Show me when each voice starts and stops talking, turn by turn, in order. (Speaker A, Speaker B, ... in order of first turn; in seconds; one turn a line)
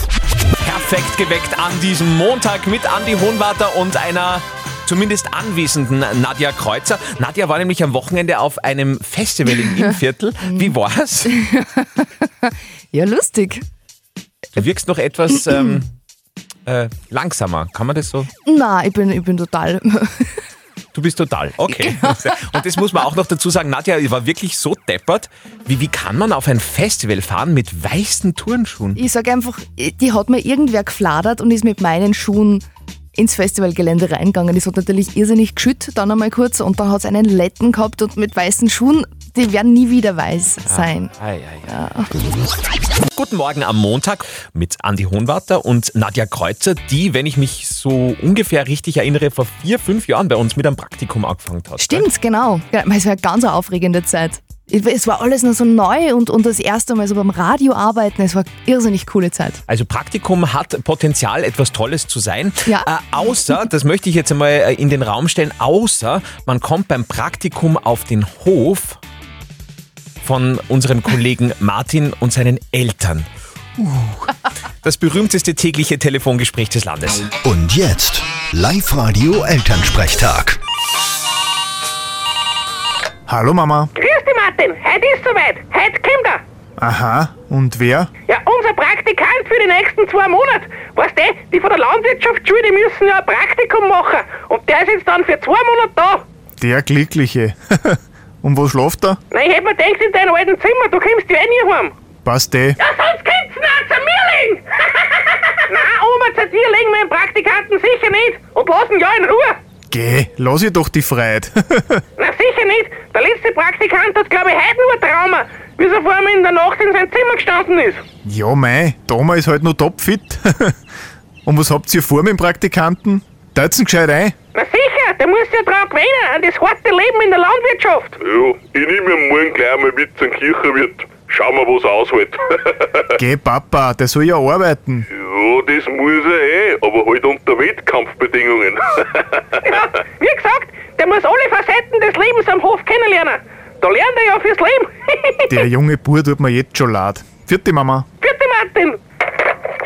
Speaker A: 0.6-11.3
Speaker B: 10.4-10.7
Speaker B: 11.2-13.6
Speaker A: 14.5-15.9
Speaker A: 16.6-18.3
Speaker B: 18.4-20.3
Speaker A: 20.9-29.0
Speaker B: 21.6-22.7
Speaker B: 28.9-41.1
Speaker A: 40.7-41.7
Speaker B: 41.6-42.1
Speaker A: 43.1-52.0
Speaker B: 51.8-59.6
Speaker A: 59.7-69.0
Speaker B: 62.6-63.6
Speaker A: 70.2-74.3
Speaker A: 74.8-77.3
Speaker C: 77.4-80.6
Speaker D: 83.3-83.9
Speaker E: 84.0-86.4
Speaker D: 86.8-88.1
Speaker E: 88.3-96.2
Speaker D: 96.6-99.2
Speaker E: 99.3-101.9
Speaker D: 102.2-102.7
Speaker E: 102.8-104.6
Speaker E: 105.7-109.6
Speaker D: 109.9-112.0
Speaker E: 112.2-118.0
Speaker D: 118.2-120.7
Speaker D: 121.5-124.3
Speaker E: 124.5-128.2
Speaker F: 128.2-133.0
Speaker D: 133.2-135.1
Speaker F: 135.1-139.2
Speaker E: 139.7-145.6
Speaker D: 145.5-148.1
Speaker E: 148.2-149.0